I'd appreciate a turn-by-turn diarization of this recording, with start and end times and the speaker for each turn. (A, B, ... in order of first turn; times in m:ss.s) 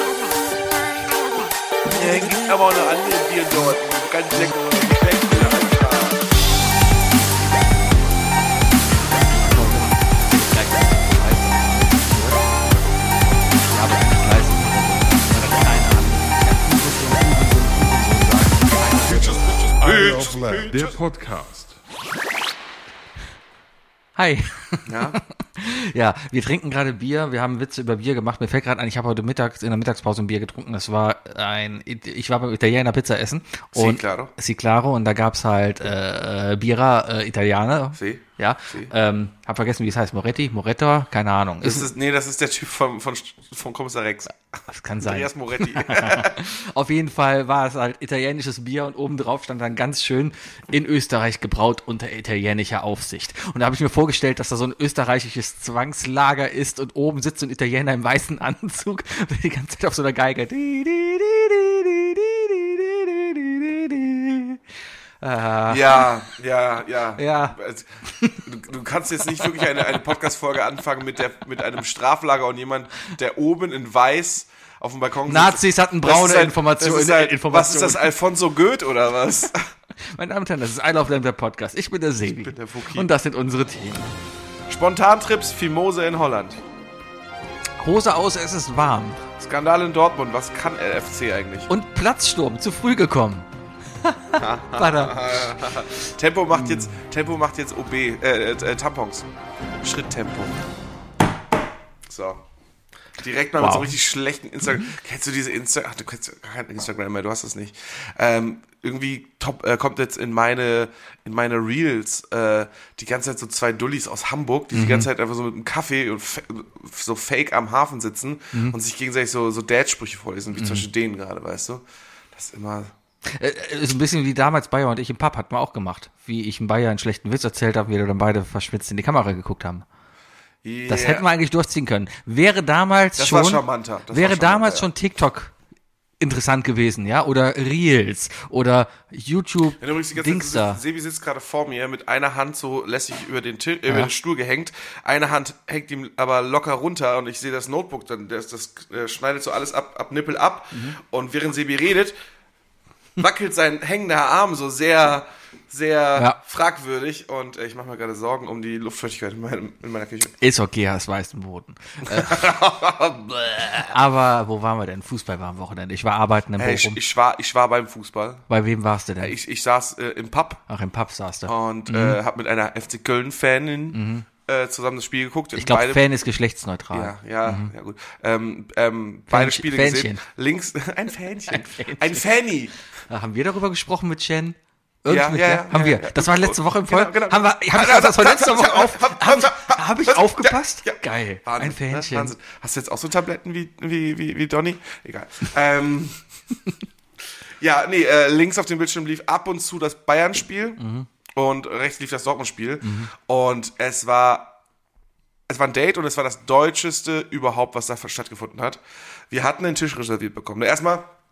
0:01.9-0:06.3 A
0:09.3-0:12.4 B
0:12.4-0:13.6 A
0:13.7-0:19.6 B
0:19.1-0:21.0 A
0:19.2-0:21.8 C
0:24.2-0:41.9 B
0:24.9-0:25.2 A
0:33.7-0:34.3 A
0:38.0-0:38.9 A
0:41.6-0:44.4 A
0:44.7-1:04.6 B
0:45.0-0:46.4 A
1:05.2-1:06.1 B
1:05.7-1:07.9 A
1:07.2-1:07.6 B
1:08.2-1:08.4 B
1:08.4-1:19.6 A
1:09.4-1:09.9 B
1:15.3-1:18.1 B
1:20.2-1:24.1 B
1:22.3-1:23.1 A
1:24.7-1:26.6 A
1:27.8-1:29.2 B
1:29.4-1:31.7 A
1:31.7-1:33.5 B
1:34.0-1:35.8 B
1:34.4-1:39.3 A
1:36.5-1:37.0 B
1:39.8-1:40.6 A
1:42.1-1:42.4 A
1:43.2-2:02.9 A
1:43.6-1:43.9 B
1:54.7-1:55.1 B
2:00.6-2:00.8 B
2:03.3-2:09.8 B
2:10.6-2:11.3 A
2:10.9-2:15.5 B
2:13.2-2:14.9 A
2:16.2-2:20.8 B
2:19.8-2:32.2 A
2:33.2-2:40.4 A
2:40.4-2:42.5 B
2:42.1-2:43.9 A
2:43.8-2:47.0 B
2:46.6-2:48.5 A
2:48.5-2:49.4 B
2:49.2-2:50.6 A
2:50.7-2:52.2 B
2:51.5-2:56.0 A
2:53.9-2:54.3 B
2:55.6-2:57.7 B
2:56.9-3:02.7 A
2:59.3-3:00.2 B
3:01.5-3:02.2 B
3:03.1-3:12.3 B
3:05.1-3:16.2 A
3:17.6-3:20.8 A
3:20.8-3:21.1 B
3:21.4-3:24.6 A
3:22.8-3:23.1 B
3:25.5-3:31.1 A